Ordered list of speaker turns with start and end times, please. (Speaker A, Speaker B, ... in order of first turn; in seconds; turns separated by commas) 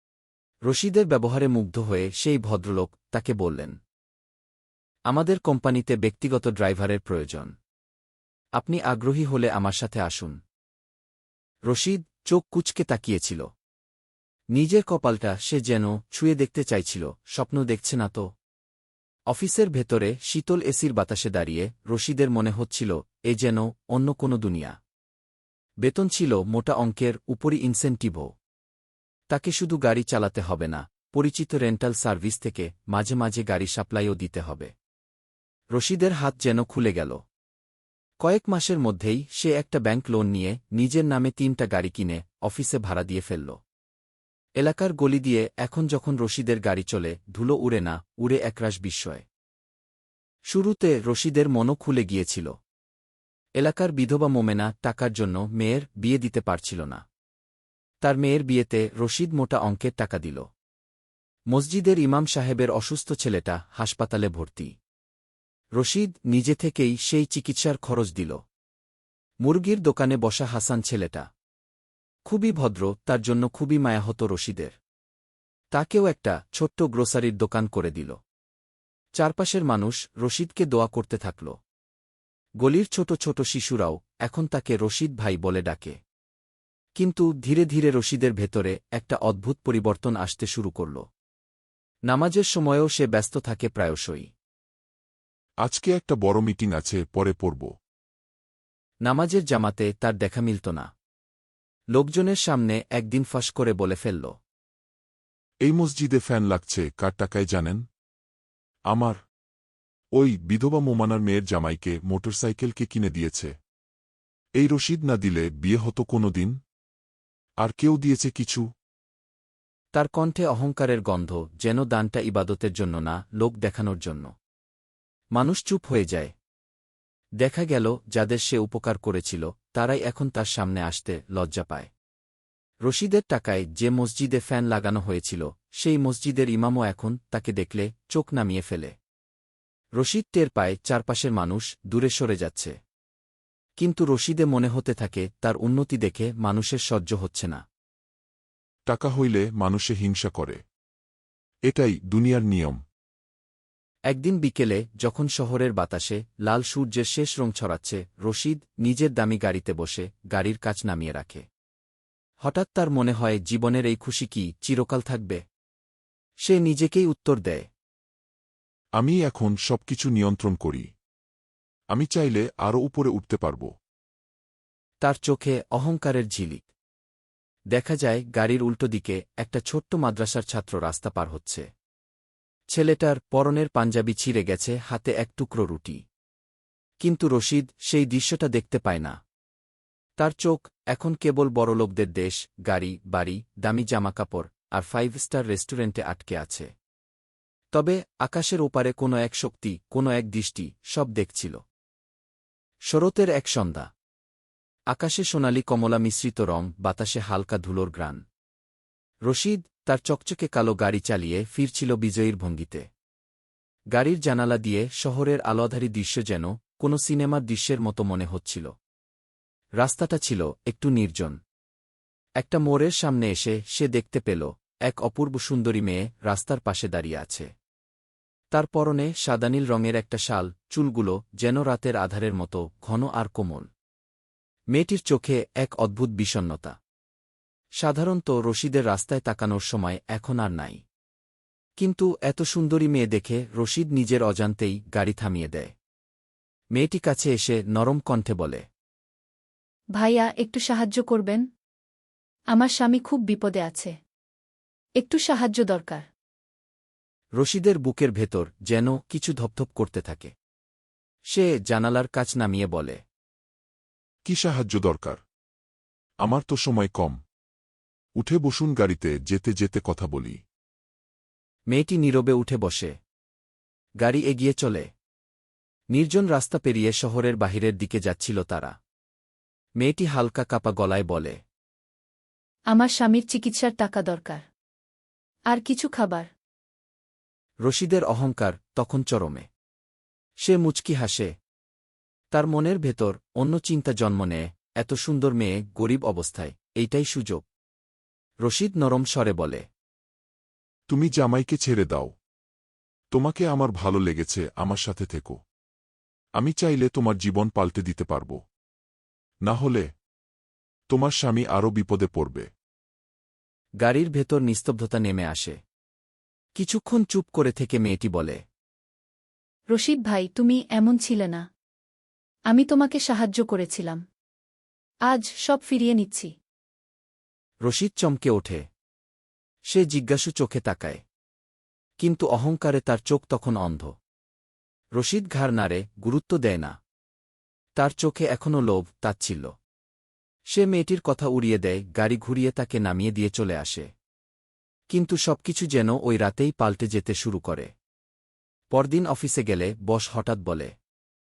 Speaker A: 0.7-3.8, Speaker A: 5.1-7.5, Speaker A: 8.6-10.4, Speaker A: 11.7-13.5, Speaker A: 14.5-18.3, Speaker A: 19.3-24.8, Speaker A: 25.8-28.3, Speaker A: 29.3-34.7, Speaker A: 35.7-37.2, Speaker A: 38.2-43.6, Speaker A: 44.6-49.2, Speaker A: 50.5-52.5, Speaker A: 53.6-57.0, Speaker A: 58.0-60.5, Speaker A: 61.5-64.7, Speaker A: 65.8-68.4, Speaker A: 69.4-71.2, Speaker A: 72.3-74.8, Speaker A: 75.7-78.2, Speaker A: 79.2-81.5, Speaker A: 82.6-86.0, Speaker A: 87.0-91.0, Speaker A: 92.1-94.3, Speaker B: 95.6-97.7, Speaker A: 99.0-100.9, Speaker A: 101.9-104.3, Speaker B: 105.6-107.8, Speaker B: 108.9-109.2, Speaker B: 110.2-113.5, Speaker B: 114.6-116.5, Speaker B: 117.6-118.7, Speaker A: 119.9-124.3, Speaker A: 125.3-126.3, Speaker A: 127.4-131.9, Speaker A: 132.8-138.9, Speaker A: 140.0-142.8, Speaker A: 143.8-147.6, Speaker B: 148.9-150.6, Speaker B: 151.7-152.8, Speaker A: 154.1-161.4, Speaker A: 162.4-165.4, Speaker A: 166.4-167.7, Speaker B: 169.0-170.9, Speaker B: 171.9-173.7, Speaker A: 175.0-176.7, Speaker A: 177.7-181.7, Speaker A: 182.7-186.0, Speaker A: 187.0-189.2, Speaker A: 190.2-196.7, Speaker A: 197.7-201.6, Speaker A: 202.9-203.9, Speaker A: 204.9-208.2, Speaker A: 209.2-212.9, Speaker A: 213.9-218.7, Speaker A: 219.8-221.4, Speaker A: 222.4-227.5, Speaker A: 228.5-233.7, Speaker A: 234.7-236.8, Speaker A: 237.8-240.8, Speaker A: 241.8-245.7, Speaker A: 246.8-248.6, Speaker C: 249.9-251.4, Speaker C: 252.5-254.0, Speaker C: 255.0-256.1, Speaker A: 257.4-260.3, Speaker A: 261.3-263.0, Speaker B: 264.2-265.2, Speaker B: 266.2-267.1, Speaker B: 268.2-270.4, Speaker A: 271.7-272.9, Speaker A: 274.0-274.9, Speaker A: 275.9-278.8, Speaker A: 279.8-281.4, Speaker C: 282.7-284.4, Speaker C: 285.5-286.3, Speaker A: 287.6-289.5, Speaker A: 290.4-291.3, Speaker A: 292.3-297.4, Speaker A: 298.4-299.6, Speaker B: 300.9-302.1, Speaker B: 303.1-305.4, Speaker B: 306.4-308.4, Speaker B: 309.4-309.9, Speaker B: 310.9-312.5, Speaker A: 313.8-315.6, Speaker A: 316.6-318.4, Speaker C: 319.7-321.5, Speaker C: 322.5-324.0, Speaker C: 325.1-326.3, Speaker A: 327.6-328.7, Speaker A: 329.7-331.0, Speaker A: 332.0-333.9, Speaker A: 334.9-336.8, Speaker A: 337.8-339.5, Speaker A: 340.5-343.9, Speaker A: 344.9-347.7, Speaker A: 348.7-350.7